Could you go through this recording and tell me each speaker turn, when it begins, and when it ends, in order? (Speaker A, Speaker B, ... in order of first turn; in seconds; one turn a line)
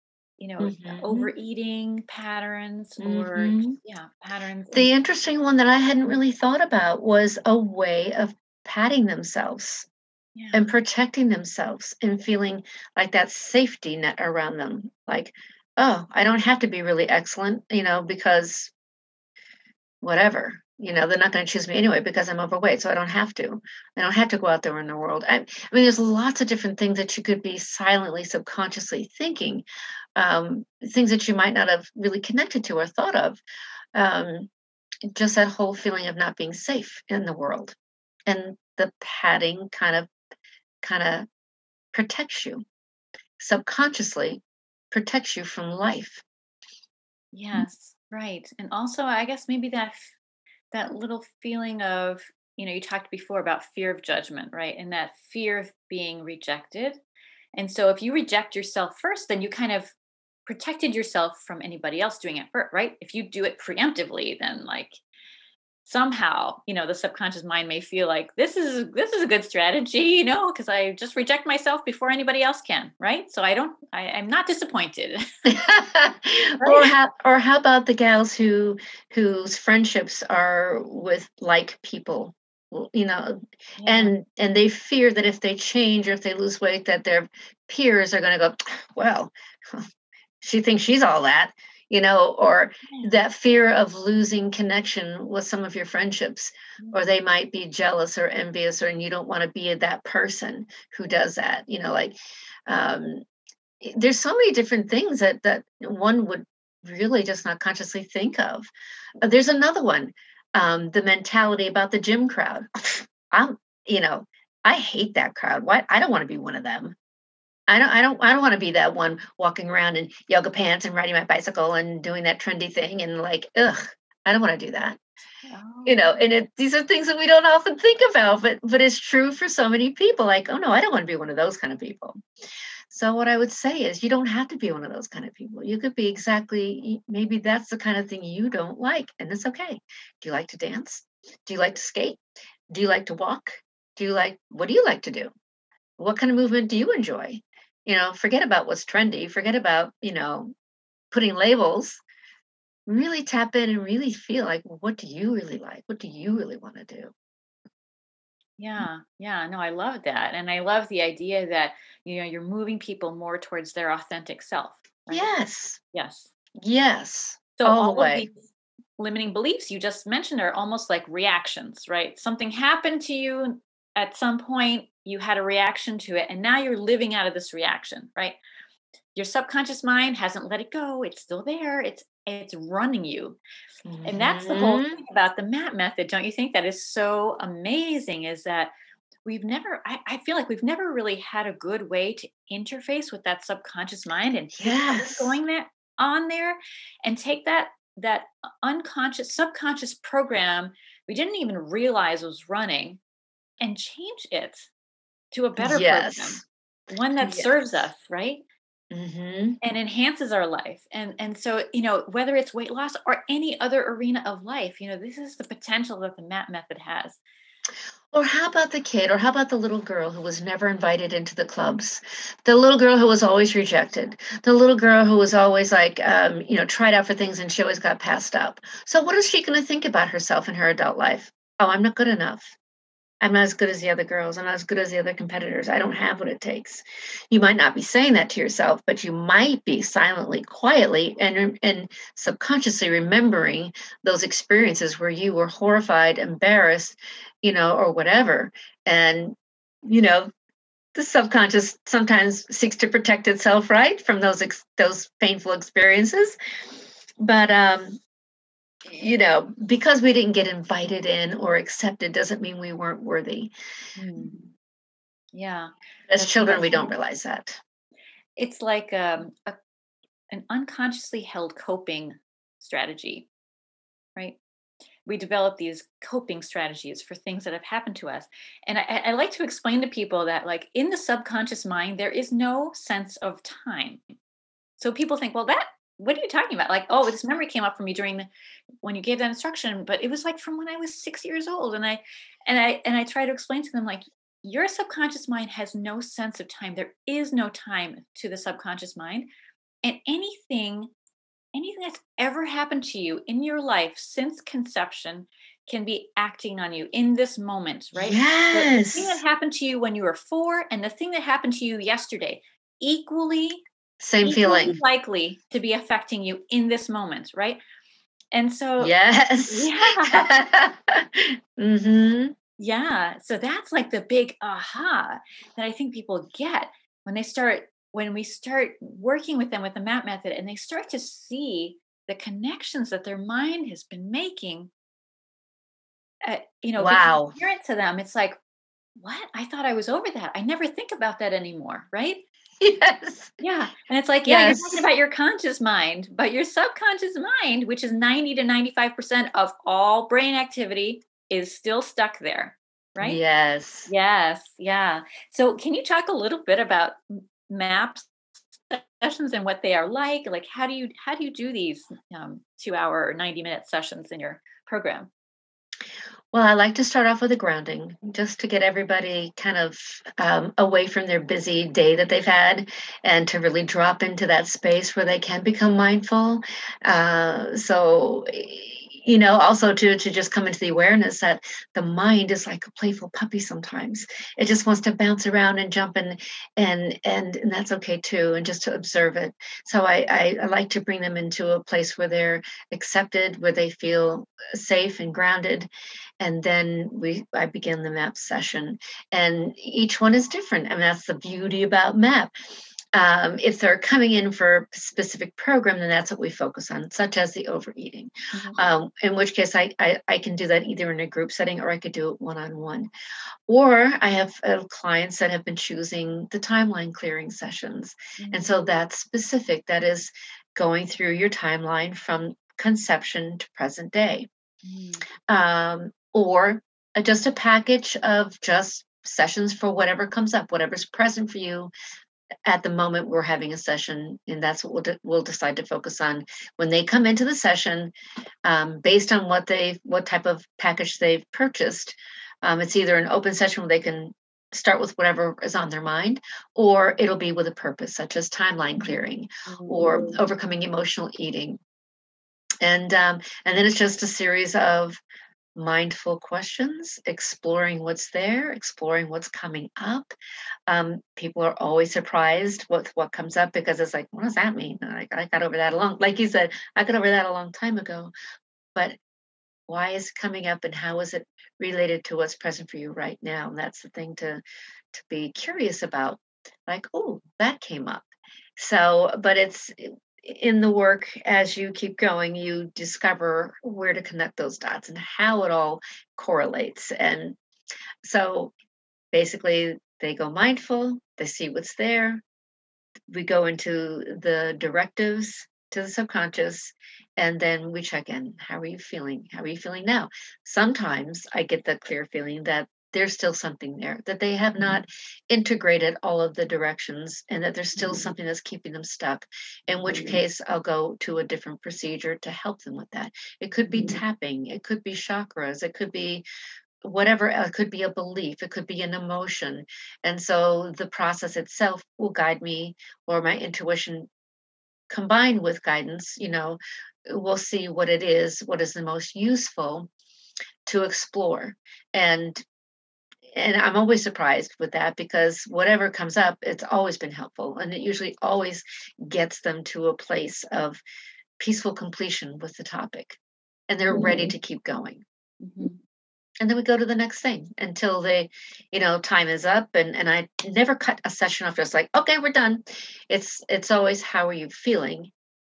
Speaker A: 0.4-4.9
Speaker B: 0.6-1.3
Speaker B: 3.0-3.8
Speaker B: 4.7-9.9
Speaker A: 10.4-10.7
Speaker B: 10.5-18.7
Speaker B: 20.0-29.6
Speaker B: 30.2-33.4
Speaker B: 33.9-34.5
Speaker B: 35.1-37.8
Speaker B: 38.3-40.1
Speaker B: 40.8-41.3
Speaker B: 41.9-42.6
Speaker B: 43.4-46.2
Speaker A: 47.3-50.2
Speaker A: 50.7-57.0
Speaker A: 57.5-60.0
Speaker A: 60.5-65.0
Speaker A: 65.8-75.2
Speaker B: 75.5-89.9
Speaker A: 76.6-76.9
Speaker A: 83.8-84.2
Speaker B: 90.4-102.2
Speaker A: 92.9-93.2
Speaker B: 102.7-103.2
Speaker B: 103.8-108.7
Speaker B: 109.2-117.0
Speaker B: 117.7-125.0
Speaker A: 125.5-126.2
Speaker B: 125.8-132.2
Speaker B: 132.9-145.3
Speaker B: 146.0-150.5
Speaker B: 151.1-152.0
Speaker B: 152.9-157.1
Speaker A: 158.6-165.3
Speaker B: 165.1-165.8
Speaker A: 165.9-166.3
Speaker B: 166.6-168.3
Speaker A: 167.6-168.4
Speaker A: 169.0-178.4
Speaker A: 179.2-183.4
Speaker B: 183.9-185.0
Speaker A: 184.0-188.7
Speaker A: 189.2-203.0
Speaker B: 194.6-195.4
Speaker A: 203.6-204.7
Speaker A: 205.3-208.4
Speaker B: 205.6-206.4
Speaker B: 207.2-207.8
Speaker B: 208.9-209.6
Speaker A: 209.6-217.2
Speaker B: 218.1-232.6
Speaker B: 233.2-250.3
Speaker B: 250.9-256.4
Speaker B: 257.2-258.0
Speaker B: 258.9-263.5
Speaker A: 264.0-264.4
Speaker A: 265.3-266.9
Speaker B: 266.1-267.6
Speaker A: 268.4-269.6
Speaker A: 270.3-273.3
Speaker A: 275.1-284.1
Speaker A: 284.8-288.3
Speaker A: 288.8-299.3
Speaker A: 299.8-300.9
Speaker A: 301.6-313.6
Speaker B: 308.0-309.2
Speaker B: 314.0-314.8
Speaker A: 314.2-317.6
Speaker A: 318.3-318.9
Speaker B: 318.8-322.4
Speaker A: 319.5-320.3
Speaker A: 322.6-334.7
Speaker A: 336.2-338.4
Speaker B: 336.8-337.4
Speaker A: 339.0-342.2
Speaker B: 342.6-343.4
Speaker A: 343.4-353.2
Speaker B: 344.2-344.9
Speaker B: 353.0-353.9
Speaker A: 353.9-358.1
Speaker A: 358.7-365.1
Speaker B: 366.3-395.7
Speaker B: 396.2-402.3
Speaker B: 402.9-412.9
Speaker A: 408.3-408.7
Speaker B: 413.5-424.3
Speaker A: 418.2-418.5
Speaker A: 424.6-425.1
Speaker B: 425.3-431.7
Speaker B: 432.5-437.9
Speaker B: 438.4-451.6
Speaker A: 449.5-450.1
Speaker B: 452.6-455.0
Speaker B: 455.6-460.1
Speaker B: 460.7-468.1
Speaker B: 469.7-474.4
Speaker B: 474.9-487.4
Speaker B: 488.0-488.5
Speaker B: 489.1-492.2
Speaker B: 493.1-516.2
Speaker B: 516.9-524.1
Speaker B: 524.9-529.9
Speaker B: 530.6-532.4
Speaker B: 533.3-540.8
Speaker B: 541.4-545.0
Speaker A: 543.9-544.3
Speaker A: 545.4-545.8
Speaker B: 546.4-555.1